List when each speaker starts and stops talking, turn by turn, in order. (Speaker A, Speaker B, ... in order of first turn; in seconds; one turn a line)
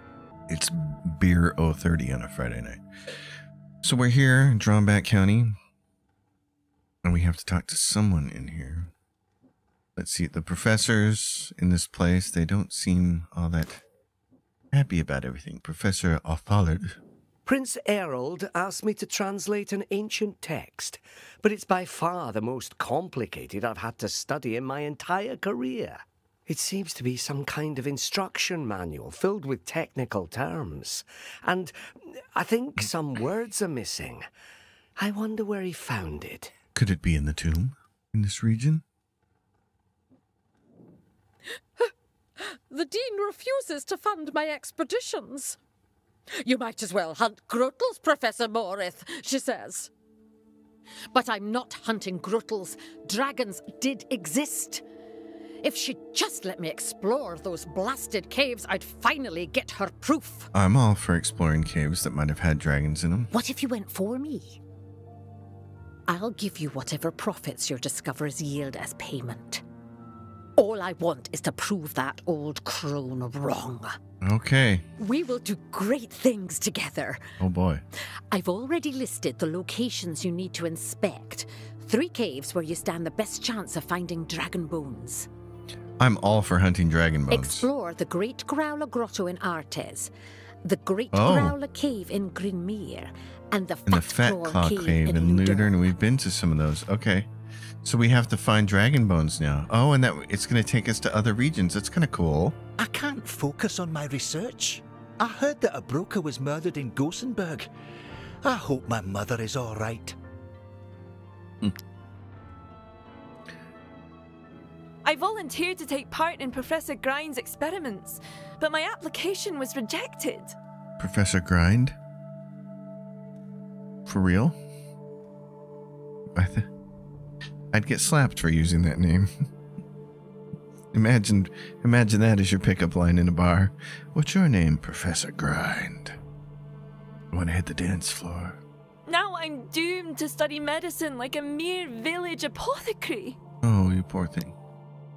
Speaker A: 0.5-2.8
Speaker A: 3.8-5.5
Speaker A: 7.0-8.9
Speaker A: 9.9-13.8
Speaker A: 14.7-16.9
Speaker B: 17.4-34.2
Speaker B: 35.0-36.5
Speaker A: 36.7-38.8
Speaker C: 42.4-45.6
Speaker C: 46.4-49.9
Speaker C: 51.1-54.8
Speaker C: 55.6-60.5
Speaker A: 60.5-63.3
Speaker C: 63.3-64.6
Speaker C: 66.1-69.6
Speaker C: 70.5-74.0
Speaker A: 74.2-74.8
Speaker C: 75.0-77.2
Speaker A: 77.4-77.8
Speaker C: 78.3-85.3
Speaker A: 86.0-87.7
Speaker C: 87.3-90.1
Speaker C: 90.6-95.7
Speaker A: 91.1-91.5
Speaker A: 93.8-97.3
Speaker A: 97.8-102.6
Speaker D: 102.8-107.7
Speaker D: 108.4-110.2
Speaker E: 115.0-120.5
Speaker A: 121.0-122.0
Speaker A: 124.0-124.5
Speaker A: 126.3-126.7
Speaker A: 127.7-129.3
Speaker A: 130.9-136.2
Speaker A: 137.3-138.6
Speaker E: 139.1-143.4
Speaker A: 143.6-144.5